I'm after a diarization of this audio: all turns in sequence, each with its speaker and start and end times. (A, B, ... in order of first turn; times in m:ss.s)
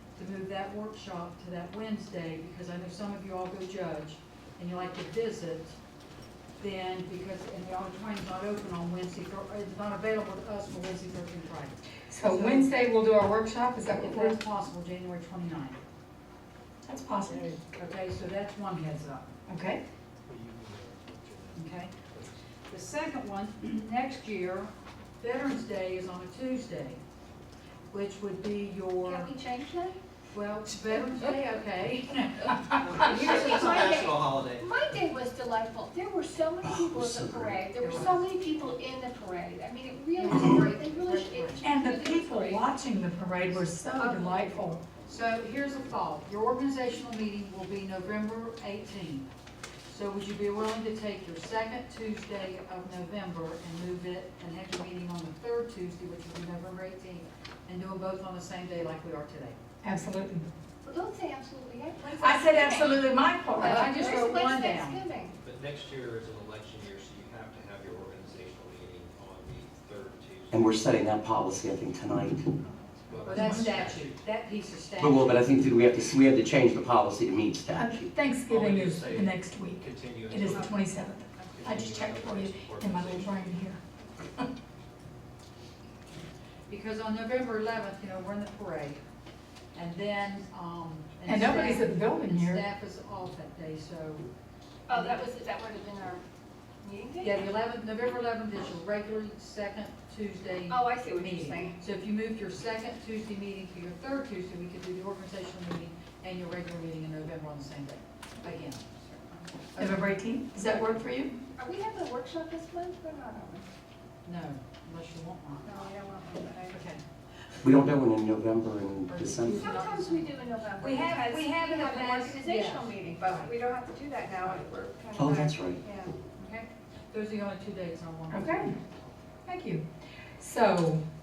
0:00.2-0:05.8 A
0:06.6-0:12.8 A
0:12.1-0:14.4 B
0:13.9-0:15.8 A
0:16.8-0:17.6 B
0:17.7-0:19.3 A
0:19.5-0:19.8 B
0:20.2-0:22.4 C
0:21.5-0:21.9 A
0:22.7-0:27.0 A
0:27.9-0:29.3 A
0:29.0-0:30.0 D
0:30.3-0:34.0 A
0:32.7-0:34.7 C
0:33.0-0:42.6 D
0:36.6-0:37.6 E
0:37.8-0:38.3 A
0:40.1-0:41.6 A
0:41.6-0:44.8 B
0:44.0-0:49.3 A
0:49.9-0:59.6 A
0:59.8-1:00.5 B
1:00.8-1:03.0 D
1:02.1-1:04.2 B
1:03.6-1:05.0 A
1:03.6-1:05.3 D
1:05.4-1:10.8 C
1:10.5-1:12.5 E
1:12.6-1:13.4 D
1:13.1-1:14.2 C
1:13.2-1:15.4 A
1:13.3-1:13.8 B
1:15.0-1:18.1 E
1:17.7-1:24.5 B
1:18.4-1:20.8 C
1:21.5-1:23.7 C
1:26.7-1:29.0 A
1:29.7-1:34.3 A
1:31.2-1:32.6 B
1:34.9-1:36.2 D
1:34.9-1:35.2 A
1:36.8-1:37.4 D
1:37.2-1:48.9 A
1:40.7-1:41.8 D
1:49.0-1:49.4 D
1:49.8-1:51.4 B
1:51.6-1:53.6 D
1:54.2-1:55.7 A
1:55.6-1:56.8 D
1:56.7-1:57.0 A
1:57.6-1:59.8 E
1:59.1-2:03.5 A
1:59.4-2:06.2 D
2:04.4-2:04.6 A
2:05.2-2:05.8 E
2:06.4-2:08.9 A
2:08.3-2:08.7 B
2:09.4-2:11.0 B